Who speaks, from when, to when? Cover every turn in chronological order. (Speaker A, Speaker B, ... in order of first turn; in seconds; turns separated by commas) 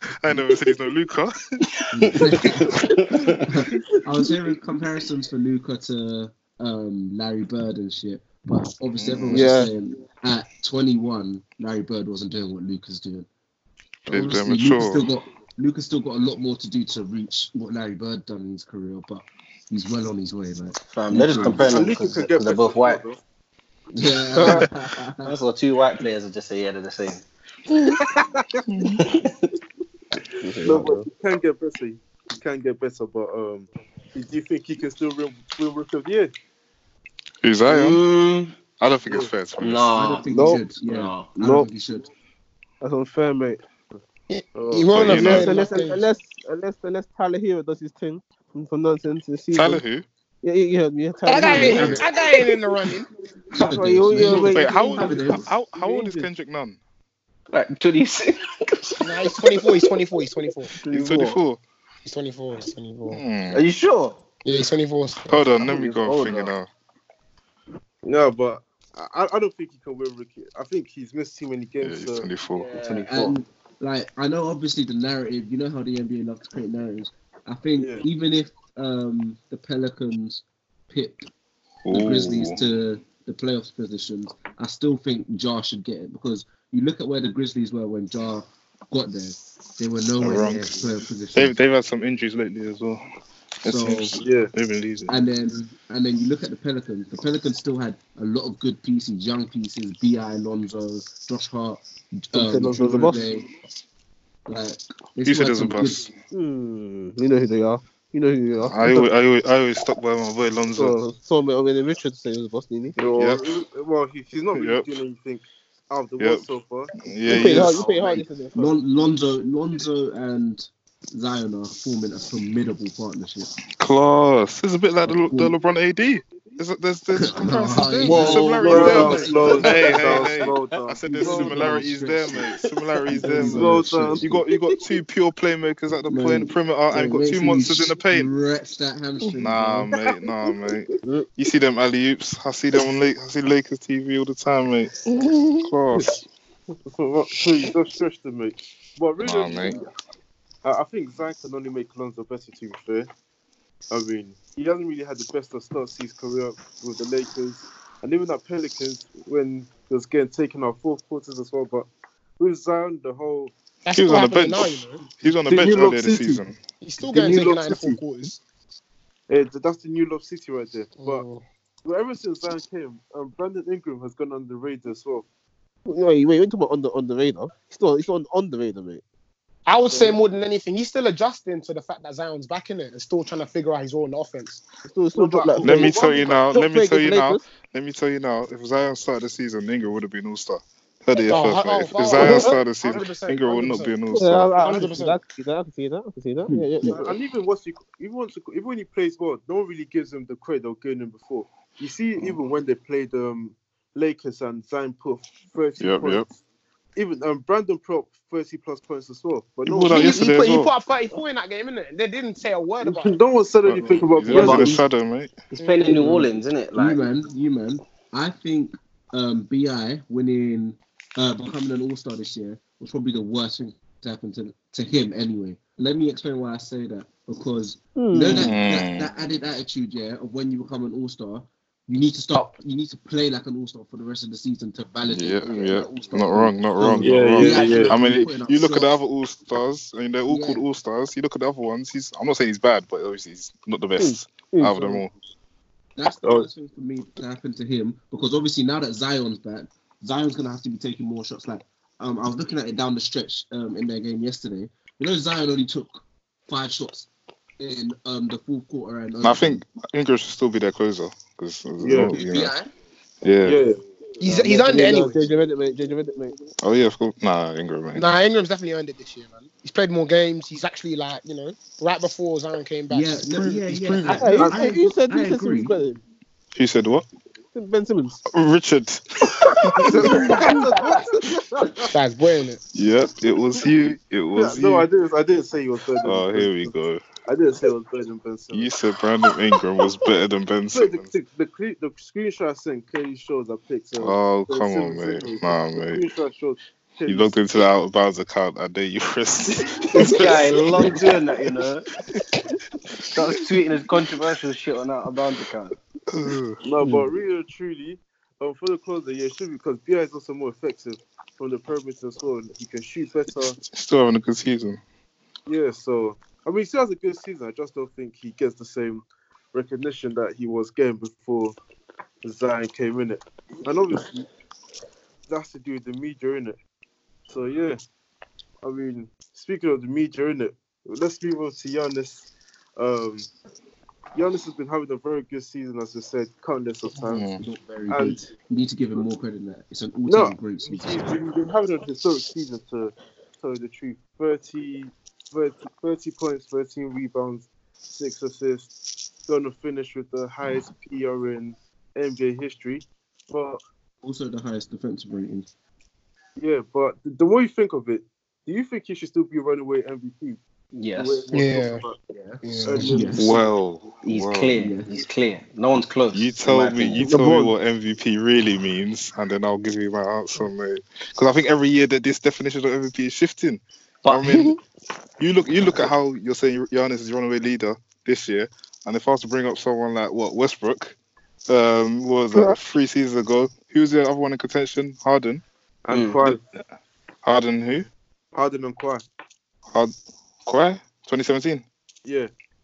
Speaker A: 0.2-1.4, Speaker B: 1.9-2.7, Speaker C: 2.9-3.4, Speaker B: 3.4-13.3, Speaker A: 8.9-9.5, Speaker D: 9.3-9.7, Speaker A: 14.1-15.1, Speaker B: 14.1-21.9, Speaker C: 20.9-23.0, Speaker E: 21.6-23.2, Speaker B: 23.9-25.3, Speaker D: 24.3-24.7, Speaker C: 25.2-27.2, Speaker A: 28.7-29.0, Speaker C: 29.0-29.5, Speaker D: 30.4-31.1, Speaker E: 30.6-36.3, Speaker A: 37.4-38.0, Speaker C: 37.7-38.5, Speaker A: 38.8-39.9, Speaker E: 39.1-39.3, Speaker C: 39.6-41.3, Speaker B: 40.0-42.1, Speaker D: 40.3-40.6, Speaker D: 41.4-41.7, Speaker D: 42.8-43.6, Speaker F: 44.3-46.1, Speaker D: 44.7-49.8, Speaker A: 44.9-45.5, Speaker A: 49.5-50.0, Speaker D: 50.4-52.0, Speaker F: 51.3-53.1, Speaker B: 51.4-52.0, Speaker B: 53.5-55.5, Speaker D: 53.6-55.2, Speaker F: 54.2-54.5, Speaker A: 54.4-56.8, Speaker E: 55.7-56.3, Speaker C: 57.5-59.9, Speaker F: 59.0-60.8, Speaker D: 60.9-61.4, Speaker A: 60.9-61.6, Speaker F: 62.0-63.2, Speaker A: 63.1-63.6, Speaker C: 63.5-64.2, Speaker F: 64.5-65.6, Speaker A: 65.3-66.7, Speaker C: 65.9-66.5, Speaker E: 68.0-72.3, Speaker A: 71.8-72.7, Speaker C: 72.6-73.2, Speaker B: 72.8-81.3, Speaker E: 77.8-78.1, Speaker A: 81.8-82.8, Speaker B: 81.9-91.5, Speaker A: 90.2-90.8, Speaker A: 91.3-93.0, Speaker A: 93.6-95.2, Speaker B: 93.7-94.1, Speaker E: 94.2-94.5, Speaker B: 95.1-103.5, Speaker D: 102.3-103.3, Speaker B: 104.5-106.1, Speaker A: 105.2-106.1, Speaker D: 106.3-109.1, Speaker A: 108.6-111.0, Speaker D: 110.7-113.0, Speaker E: 113.0-118.1, Speaker A: 113.2-113.5, Speaker A: 114.5-115.0, Speaker A: 116.2-116.5, Speaker A: 117.0-117.9, Speaker D: 117.3-118.7, Speaker B: 118.5-123.5, Speaker A: 123.8-138.3, Speaker B: 125.1-125.5, Speaker B: 127.2-132.5, Speaker E: 128.0-131.9, Speaker D: 128.1-128.8, Speaker B: 133.1-134.4, Speaker E: 133.3-134.3, Speaker B: 136.1-139.9, Speaker A: 139.4-145.0, Speaker A: 145.6-146.2, Speaker E: 146.9-149.8, Speaker A: 149.2-149.8, Speaker E: 150.6-153.1, Speaker E: 153.9-161.9, Speaker E: 162.4-163.5, Speaker F: 163.8-165.1, Speaker A: 163.9-166.6, Speaker E: 165.5-166.4, Speaker F: 166.8-168.4, Speaker E: 167.0-168.0, Speaker E: 169.3-171.2, Speaker F: 171.0-171.4, Speaker E: 171.8-175.3, Speaker D: 175.9-179.0, Speaker F: 179.7-184.6, Speaker D: 184.9-187.4, Speaker E: 185.1-186.5, Speaker A: 185.6-194.5, Speaker F: 191.1-195.2, Speaker D: 194.1-197.2, Speaker B: 196.5-197.0, Speaker E: 196.9-206.4, Speaker A: 205.8-206.3, Speaker E: 207.0-210.2, Speaker A: 209.7-210.7, Speaker F: 209.9-213.2, Speaker E: 212.8-214.8, Speaker A: 213.7-215.3, Speaker C: 214.3-214.8, Speaker C: 215.5-217.0, Speaker F: 215.6-215.8, Speaker B: 215.9-239.0, Speaker D: 228.0-228.5, Speaker A: 228.4-229.1, Speaker A: 235.1-245.1, Speaker E: 237.0-238.0, Speaker B: 240.3-240.6, Speaker D: 244.0-245.1, Speaker B: 246.0-259.6, Speaker E: 246.2-246.5, Speaker A: 259.2-262.6, Speaker E: 261.8-262.1, Speaker B: 262.0-262.7, Speaker A: 263.2-263.6, Speaker E: 263.4-263.8, Speaker F: 264.2-265.3, Speaker D: 264.3-266.4, Speaker A: 266.6-268.1, Speaker F: 267.9-274.5, Speaker B: 272.9-275.8, Speaker A: 273.7-274.2, Speaker D: 274.1-276.0, Speaker A: 276.5-277.1, Speaker D: 277.5-278.2, Speaker A: 278.3-280.4, Speaker D: 279.9-281.8, Speaker F: 281.9-282.6, Speaker A: 282.8-284.9, Speaker E: 284.4-286.7, Speaker A: 286.0-287.0, Speaker E: 287.2-288.7, Speaker A: 288.5-291.1, Speaker E: 290.7-297.4, Speaker A: 294.0-296.0, Speaker A: 297.1-301.0, Speaker C: 300.0-301.9, Speaker E: 300.8-301.1, Speaker C: 303.1-305.8, Speaker A: 306.1-306.6, Speaker E: 306.6-313.6, Speaker A: 313.6-314.8, Speaker E: 315.5-321.6, Speaker E: 322.2-324.3, Speaker E: 325.3-326.6, Speaker E: 327.3-327.8, Speaker E: 328.6-333.3, Speaker E: 334.1-338.3, Speaker A: 336.9-337.4, Speaker B: 337.4-341.1, Speaker E: 340.1-348.7, Speaker E: 349.3-353.6, Speaker B: 354.0-355.5, Speaker E: 356.4-360.4, Speaker C: 360.7-361.3, Speaker E: 360.9-362.0, Speaker F: 361.3-361.9, Speaker B: 362.1-363.4, Speaker F: 362.4-363.2, Speaker E: 362.6-363.4, Speaker A: 363.2-364.6, Speaker C: 364.0-367.0, Speaker B: 364.6-364.9, Speaker A: 366.1-374.6, Speaker D: 367.0-367.5, Speaker C: 374.0-374.4, Speaker A: 375.2-381.0, Speaker A: 381.5-385.4, Speaker E: 385.9-386.4, Speaker C: 385.9-386.3, Speaker A: 387.2-387.9, Speaker E: 388.3-389.1, Speaker A: 390.4-391.6, Speaker E: 392.1-392.3